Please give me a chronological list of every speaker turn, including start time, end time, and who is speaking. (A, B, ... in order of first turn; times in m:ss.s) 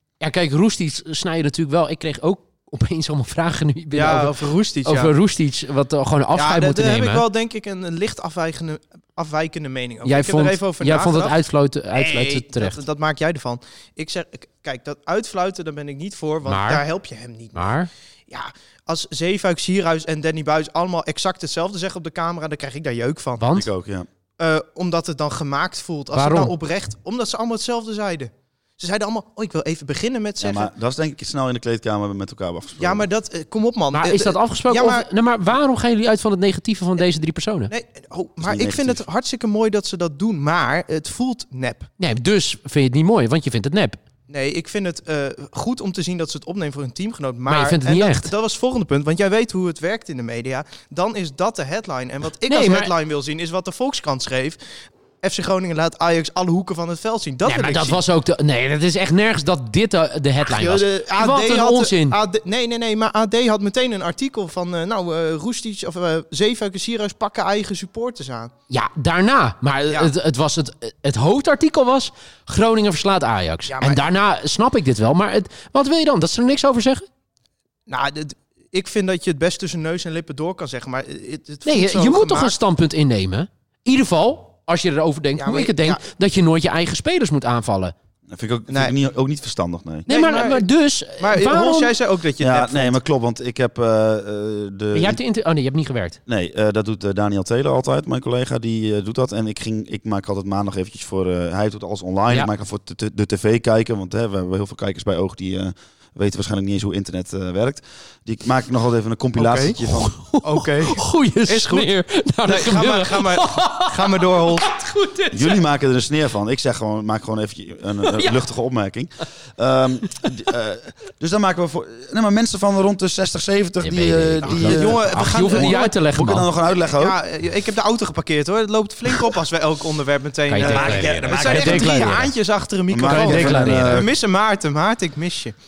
0:00.2-0:07.2 A
0:03.9-0:05.1 B
0:06.3-0:11.4 B
0:10.0-0:12.8 A
0:11.9-0:23.5 B
0:16.4-0:16.8 A
0:17.5-0:17.9 A
0:23.4-0:23.7 A
0:23.5-0:24.1 C
0:24.4-0:30.7 B
0:26.1-0:26.5 A
0:30.4-0:33.0 C
0:32.8-0:35.1 B
0:33.9-0:37.7 A
0:37.7-0:41.9 B
0:38.4-0:39.0 C
0:42.0-0:44.0 A
0:44.3-0:54.6 B
0:47.5-0:48.3 A
0:52.5-0:52.9 A
0:55.2-0:58.0 B
0:57.4-1:02.2 A
1:00.4-1:08.5 B
1:08.7-1:17.0 A
1:13.7-1:14.1 B
1:17.9-1:22.6 B
1:21.6-1:27.9 A
1:25.4-1:26.0 B
1:28.3-1:30.1 C
1:28.7-1:29.0 B
1:30.1-1:31.9 A
1:30.1-1:33.0 B
1:32.4-1:35.2 C
1:34.9-1:36.2 A
1:36.3-1:50.1 C
1:49.4-1:49.8 B
1:49.9-1:55.6 A
1:50.4-1:51.9 B
1:52.4-1:54.7 B
1:55.3-2:07.2 C
1:58.0-1:58.4 A
2:03.8-2:06.5 A
2:04.4-2:05.9 B
2:06.9-2:15.5 B
2:10.5-2:12.3 A
2:10.6-2:12.1 C
2:12.9-2:14.1 C
2:13.0-2:14.1 A